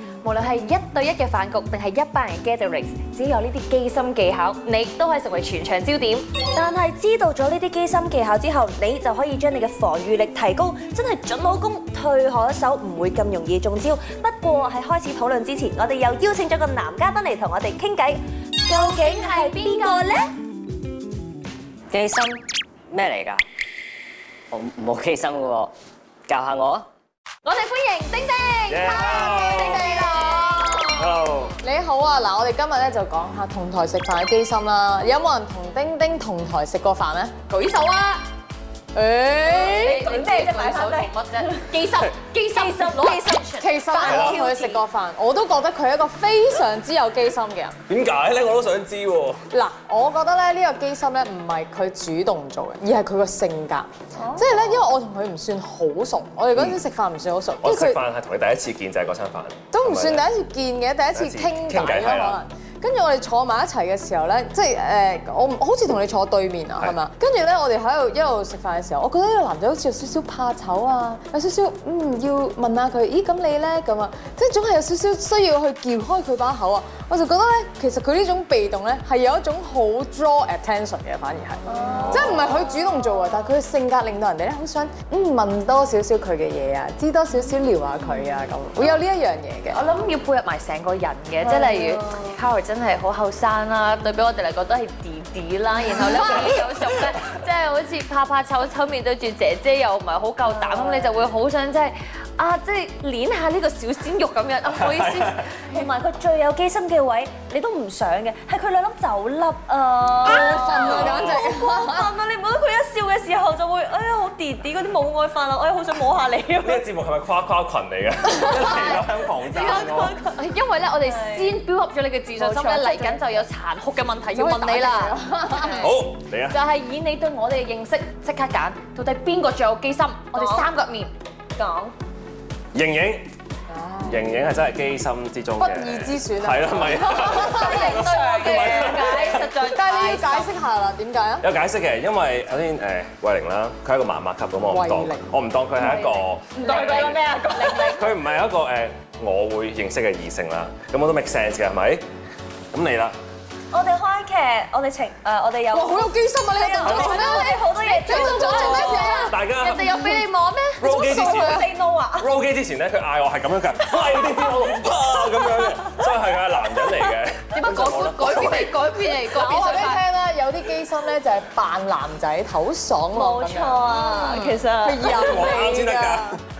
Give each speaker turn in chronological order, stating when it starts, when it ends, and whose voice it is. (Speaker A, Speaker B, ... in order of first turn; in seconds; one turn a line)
Speaker A: 0.2-6.3
Speaker B: 6.5-20.3
Speaker A: 18.7-20.1
Speaker C: 21.9-23.4
Speaker C: 24.5-25.7
Speaker C: 26.3-26.9
Speaker A: 27.4-31.2
Speaker D: 28.7-29.9
Speaker E: 28.8-30.7
Speaker D: 30.9-31.6
Speaker E: 31.6-37.3
Speaker A: 37.5-38.2
Speaker E: 38.9-40.0
Speaker A: 39.4-43.7
Speaker B: 39.4-41.5
Speaker B: 42.5-44.8
Speaker E: 43.6-47.7
Speaker D: 44.0-44.4
Speaker D: 47.9-49.4
Speaker E: 49.5-58.0
Speaker B: 54.2-54.8
Speaker D: 57.6-60.2
Speaker E: 59.7-89.8
Speaker D: 61.1-62.4
Speaker B: 81.7-82.4
Speaker A: 89.7-105.8
Speaker B: 91.4-92.2
Speaker B: 100.5-101.1
Speaker D: 104.8-105.4
Speaker B: 105.7-116.8
Speaker E: 110.2-112.1
Speaker A: 110.2-110.8
Speaker D: 110.7-111.4
Speaker D: 116.6-120.2
Speaker A: 118.4-125.9
Speaker B: 119.5-121.6
Speaker B: 122.3-123.2
Speaker E: 124.3-125.9
Speaker D: 125.8-126.6
Speaker A: 126.5-131.1
Speaker B: 130.3-130.7
Speaker B: 131.6-131.9
Speaker D: 132.7-133.3
Speaker E: 133.7-134.4
Speaker D: 134.0-139.5
Speaker E: 135.6-137.9
Speaker A: 137.2-140.5
Speaker E: 139.6-141.4
Speaker D: 141.4-152.0
Speaker E: 144.6-145.3
Speaker A: 145.9-148.2
Speaker B: 146.7-147.9
Speaker D: 152.7-153.2
Speaker B: 153.7-159.3
Speaker E: 155.7-159.3
Speaker D: 156.8-157.6
Speaker A: 157.2-160.9
Speaker D: 158.5-160.0
Speaker D: 160.8-168.8
Speaker B: 160.8-162.3
Speaker E: 161.0-161.6
Speaker A: 167.5-170.0
Speaker E: 169.3-176.4
Speaker B: 173.1-175.6
Speaker D: 175.0-176.4